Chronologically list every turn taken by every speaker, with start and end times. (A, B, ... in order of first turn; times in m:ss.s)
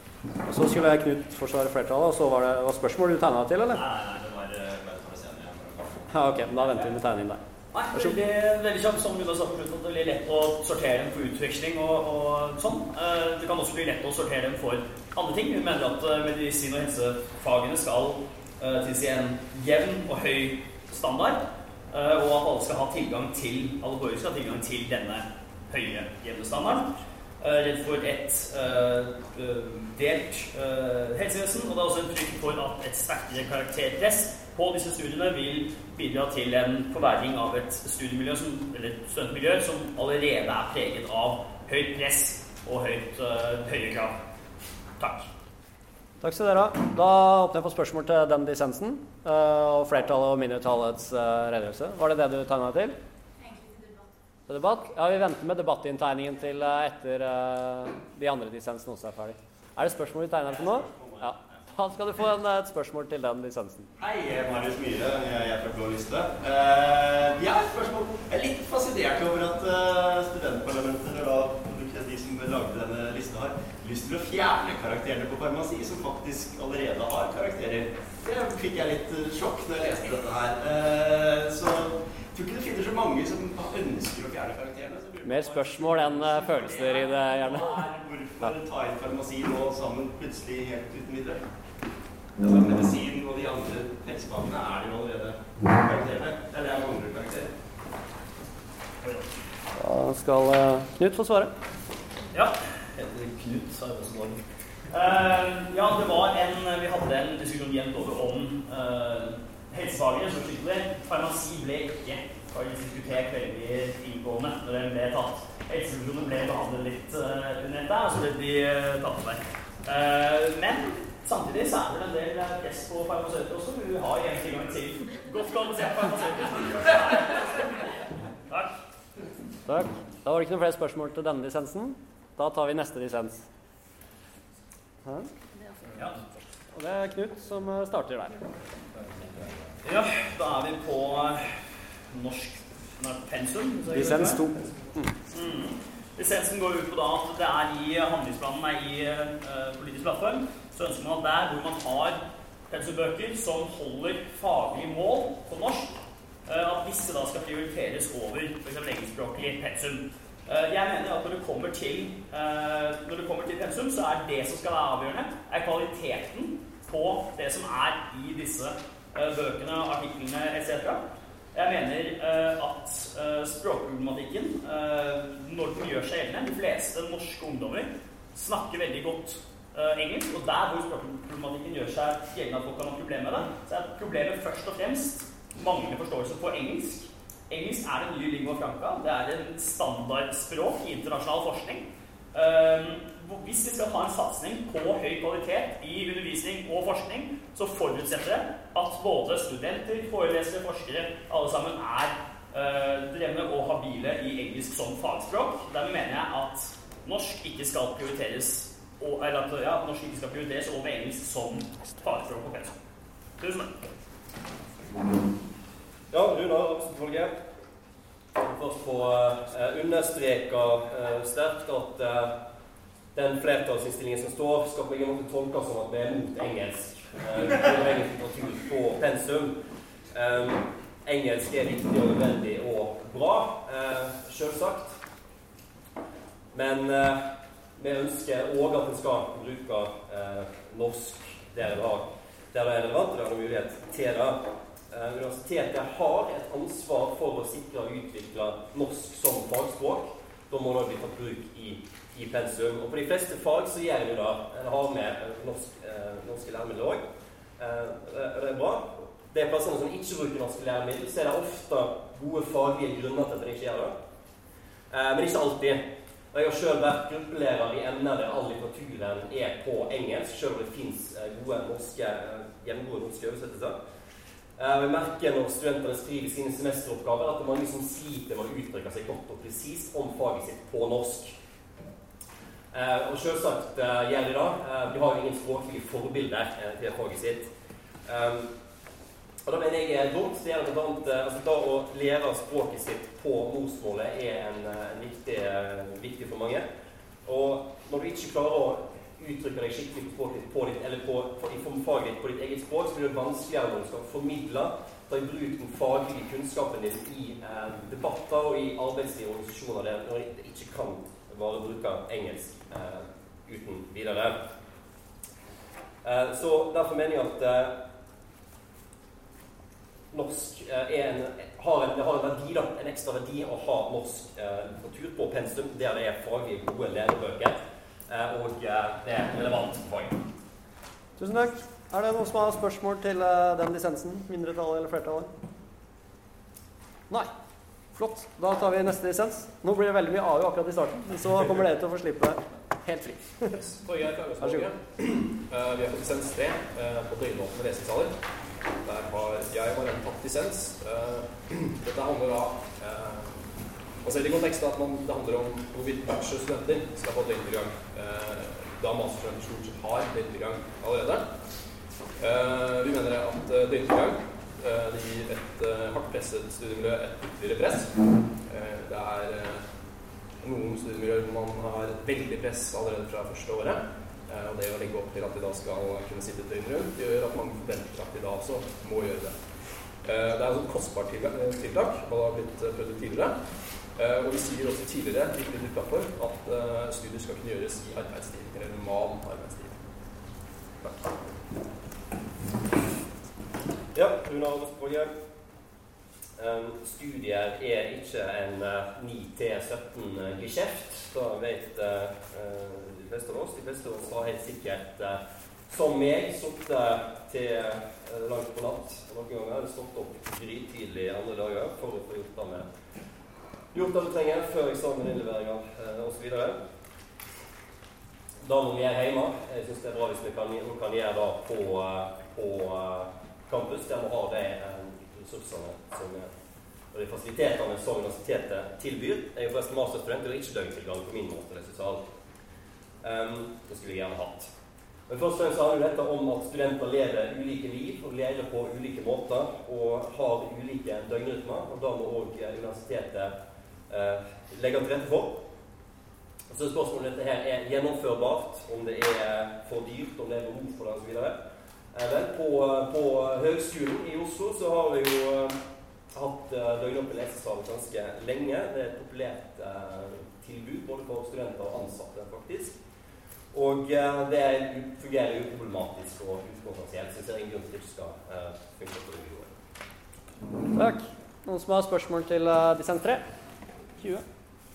0:00.4-0:03.8 A
0:03.7-0:06.0 B
0:06.1-0:07.4 A
0:07.7-0:26.9 C
0:27.4-0:44.1 C
0:45.0-0:45.3 C
0:46.2-0:53.0 A
0:54.5-1:03.9 A
1:00.4-1:01.5 B
1:04.0-1:31.4 B
1:25.2-1:27.8 A
1:32.4-1:37.5 B
1:39.8-1:41.5 A
1:42.3-1:44.4 C
1:44.9-2:07.9 C
2:09.6-2:13.4 A
2:15.0-2:15.3 A
2:16.7-2:18.4 A
2:19.8-2:21.6 C
2:22.1-2:24.4 C
2:23.9-2:25.1 A
2:25.3-2:51.0 C
2:51.5-3:32.7 C
3:33.4-3:33.7 C
3:36.1-3:37.4 D
3:38.4-3:42.4 D
3:43.1-3:49.6 D
3:50.1-3:55.0 D
3:56.5-3:57.2 D
3:57.8-4:17.0 D
4:17.6-4:24.0 D
4:24.9-4:33.8 D
4:34.6-4:41.3 D
4:42.7-4:47.5 D
4:48.0-4:48.5 D
4:49.4-4:56.6 D
4:57.2-5:14.4 D
5:16.0-5:17.8 D
5:20.1-5:30.2 D
5:31.2-5:35.3 A
5:38.0-5:43.6 A
5:43.5-5:48.1 E
5:44.4-5:44.7 A
5:48.8-5:53.4 E
5:54.0-6:01.2 E
6:02.2-6:07.9 E
6:08.4-6:09.6 E
6:10.4-6:19.4 E
6:20.0-6:29.7 E
6:30.8-6:31.1 E
6:33.9-6:35.1 D
6:36.4-6:52.7 D
6:53.7-6:56.6 D
6:58.4-7:06.3 D
7:06.9-7:12.1 D
7:13.0-7:14.5 D
7:15.1-7:23.3 D
7:23.9-7:25.4 D
7:26.5-7:31.4 D
7:31.9-7:35.6 D
7:36.1-7:42.8 D
7:43.5-7:49.5 D
7:50.7-7:53.2 A